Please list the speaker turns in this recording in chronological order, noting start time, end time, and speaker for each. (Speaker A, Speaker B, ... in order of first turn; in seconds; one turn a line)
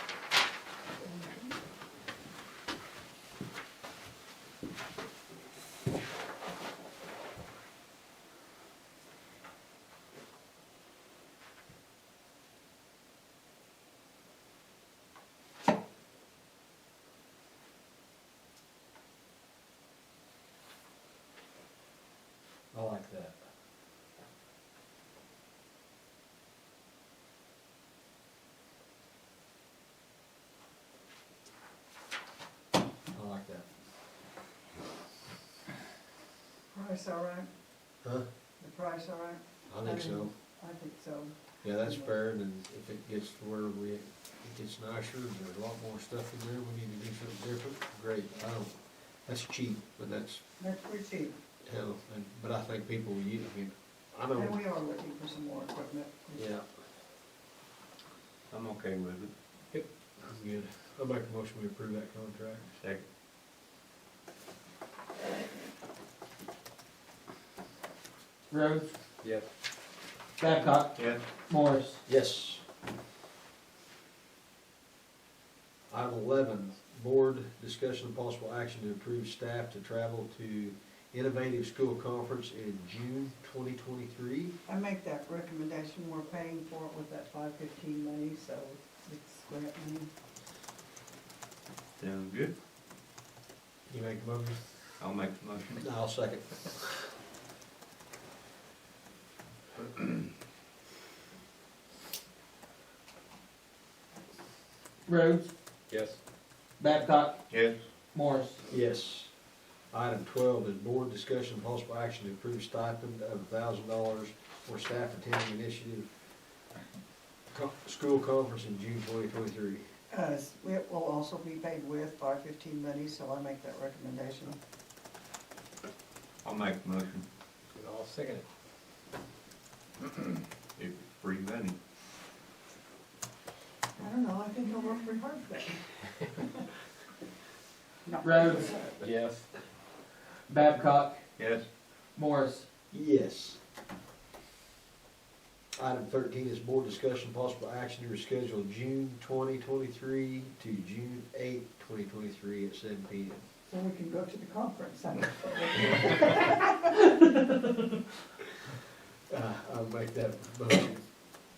Speaker A: 1.0-1.5
Speaker B: 22.7-23.4
Speaker B: 33.1-33.7
Speaker A: 36.7-37.5
Speaker B: 38.0-38.3
Speaker A: 38.6-42.1
Speaker B: 39.7-40.3
Speaker B: 41.6-50.4
Speaker A: 50.6-51.4
Speaker B: 51.6-54.6
Speaker A: 54.4-56.4
Speaker B: 56.3-56.7
Speaker C: 58.5-59.3
Speaker B: 60.2-62.7
Speaker C: 62.8-63.0
Speaker D: 68.5-69.0
Speaker E: 69.2-69.5
Speaker D: 70.4-71.0
Speaker C: 70.9-71.2
Speaker D: 71.5-72.0
Speaker B: 72.1-72.6
Speaker B: 75.9-84.5
Speaker A: 84.7-90.1
Speaker C: 92.0-92.5
Speaker B: 93.9-94.8
Speaker C: 95.0-95.8
Speaker B: 95.8-97.1
Speaker D: 105.1-105.5
Speaker E: 105.9-106.2
Speaker D: 106.8-107.4
Speaker C: 107.5-107.8
Speaker D: 108.1-108.6
Speaker B: 108.7-109.3
Speaker B: 109.9-116.1
Speaker B: 117.5-119.9
Speaker A: 120.1-124.6
Speaker C: 126.4-127.3
Speaker E: 127.7-128.4
Speaker C: 130.8-131.8
Speaker A: 134.0-135.9
Speaker A: 138.1-139.0
Speaker D: 138.2-138.8
Speaker E: 139.0-139.5
Speaker D: 140.5-141.2
Speaker C: 141.4-141.7
Speaker D: 142.2-142.7
Speaker B: 142.9-143.6
Speaker B: 145.8-153.4
Speaker A: 153.7-156.9
Speaker B: 159.3-161.0